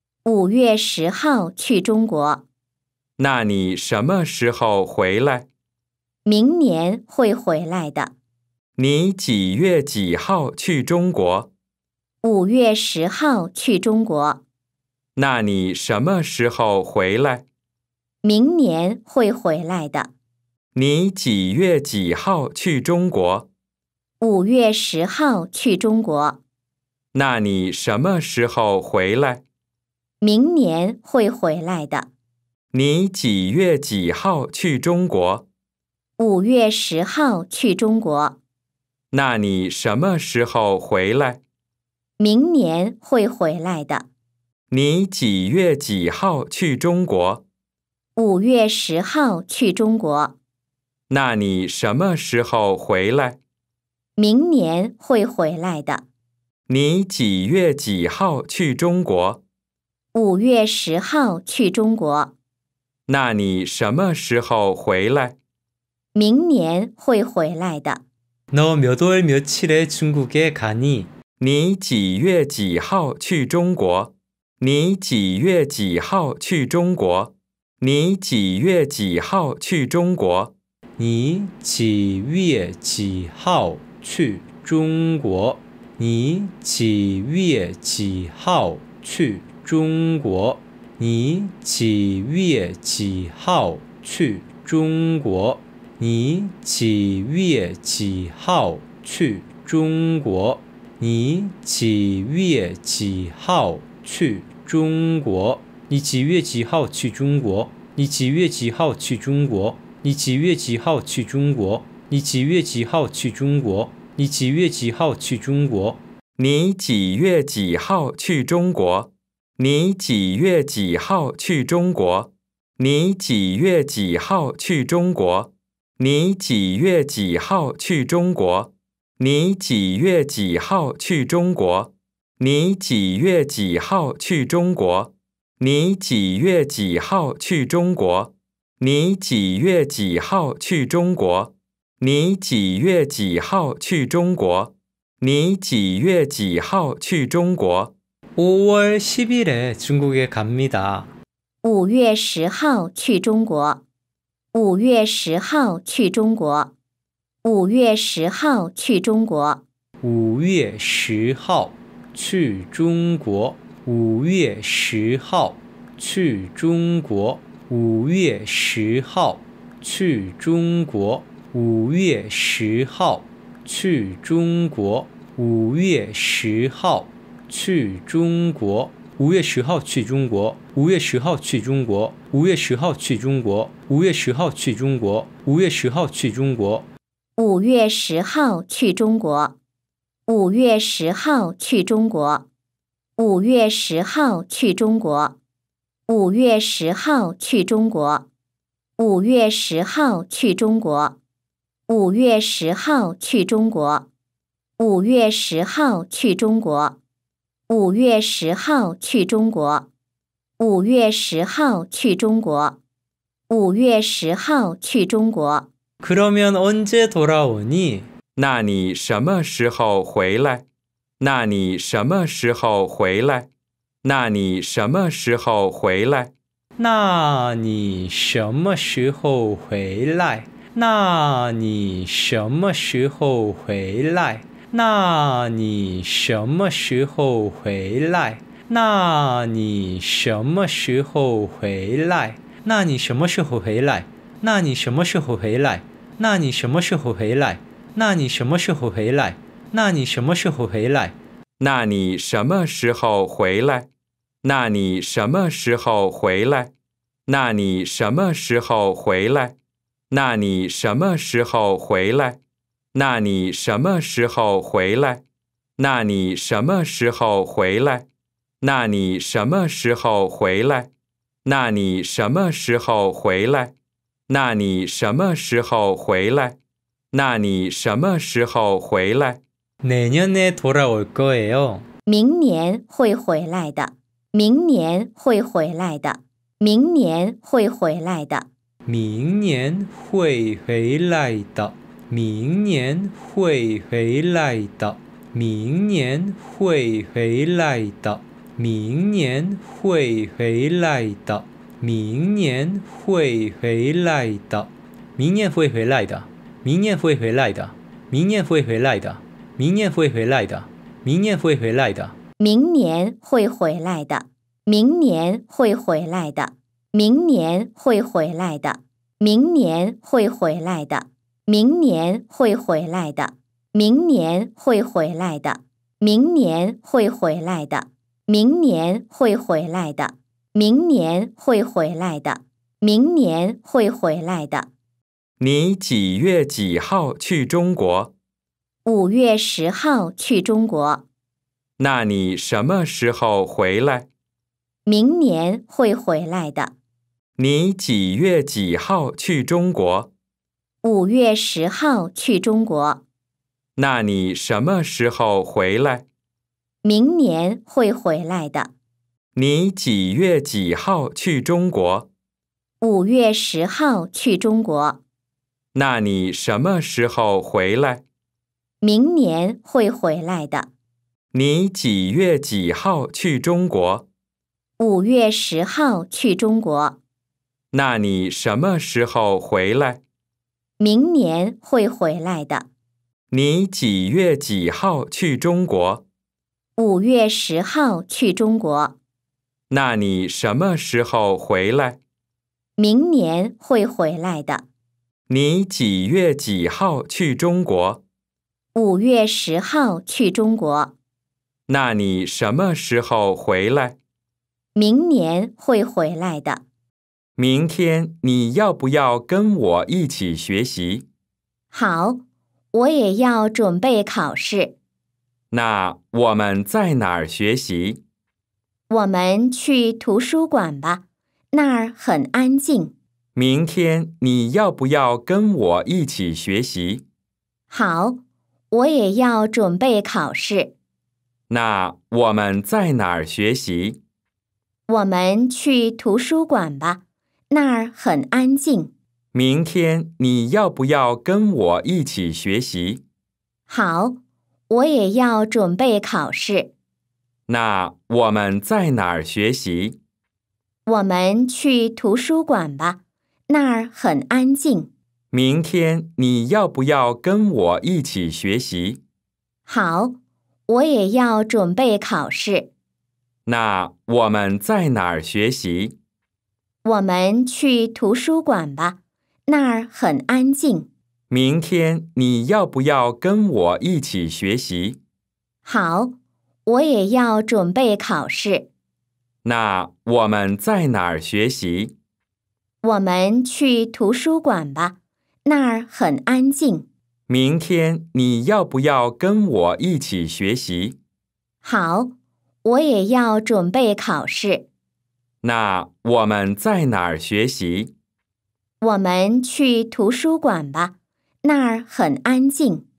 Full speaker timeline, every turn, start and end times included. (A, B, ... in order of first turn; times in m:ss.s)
0:00.2-0:02.4 A
0:03.2-0:05.5 B
0:06.2-0:08.1 A
0:08.8-0:11.5 B
0:12.2-0:14.4 A
0:15.2-0:17.4 B
0:18.2-0:20.1 A
0:20.8-0:23.5 B
0:24.2-0:26.4 A
0:27.1-0:29.4 B
0:30.2-0:32.1 A
0:32.7-0:35.4 B
0:36.2-0:38.4 A
0:39.1-0:41.4 B
0:42.2-0:44.1 A
0:44.7-0:47.4 B
0:48.2-0:50.4 A
0:51.1-0:53.4 B
0:54.2-0:56.0 A
0:56.7-0:59.4 B
1:00.1-1:02.3 A
1:03.1-1:05.4 B
1:06.2-1:08.0 A
1:08.5-1:11.1 C
1:11.4-1:20.5 B
1:21.0-1:56.0 C
1:56.4-2:27.9 B
2:28.4-2:31.1 C
2:31.6-2:33.8 A
2:34.5-2:36.7 A
2:37.4-2:39.6 A
2:40.0-3:06.9 C
3:07.4-3:09.6 A
3:10.3-3:12.5 A
3:13.2-3:15.4 A
3:16.1-3:18.3 A
3:19.0-3:21.2 A
3:21.9-3:24.1 A
3:24.8-3:27.0 A
3:27.7-3:29.9 A
3:30.6-3:32.8 A
3:33.5-3:35.7 A
3:36.0-3:38.1 C
3:38.4-3:40.6 B
3:41.2-3:43.5 B
3:44.0-3:46.3 B
3:46.8-4:11.2 C
4:11.6-4:13.9 B
4:14.4-4:16.7 B
4:17.3-4:19.6 B
4:20.1-4:22.4 B
4:22.9-4:25.2 B
4:25.8-4:28.1 B
4:28.6-4:30.9 B
4:31.4-4:33.7 B
4:34.3-4:36.6 B
4:37.1-4:39.4 B
4:39.8-4:41.9 C
4:42.1-4:48.5 A
4:48.9-5:12.2 C
5:12.4-5:34.7 A
5:35.4-5:38.1 B
5:38.8-5:41.0 A
5:41.8-5:44.1 B
5:44.9-5:46.7 A
5:47.4-5:50.1 B
5:50.8-5:53.0 A
5:53.8-5:56.0 B
5:56.8-5:58.7 A
5:59.4-6:02.1 B
6:02.8-6:05.0 A
6:05.8-6:08.0 B
6:08.8-6:10.7 A
6:11.3-6:14.1 B
6:14.8-6:17.0 A
6:17.7-6:20.0 B
6:20.8-6:22.7 A
6:23.3-6:26.0 B
6:26.8-6:29.0 A
6:29.7-6:32.0 B
6:32.8-6:34.6 A
6:35.3-6:38.0 B
6:38.8-6:40.9 A
6:41.7-6:44.0 B
6:44.8-6:46.6 A
6:47.4-6:51.0 B
6:51.7-6:52.2 A
6:52.7-6:54.8 A
6:55.5-6:58.0 B
6:58.9-7:02.9 A
7:03.4-7:07.0 B
7:07.7-7:08.2 A
7:08.7-7:10.7 A
7:11.5-7:14.0 B
7:14.9-7:18.9 A
7:19.3-7:23.0 B
7:23.7-7:24.2 A
7:24.7-7:26.7 A
7:27.5-7:30.0 B
7:30.9-7:34.9 A
7:35.3-7:39.0 B
7:39.7-7:40.2 A
7:40.7-7:42.7 A
7:43.5-7:46.0 B
7:46.8-7:50.9 A
7:51.3-7:55.0 B
7:55.6-7:56.1 A
7:56.7-7:58.7 A
7:59.4-8:01.9 B
8:02.8-8:06.9 A
8:07.3-8:11.0 B
8:11.6-8:12.1 A
8:12.6-8:14.7 A
8:15.4-8:17.9 B
8:18.8-8:22.8 A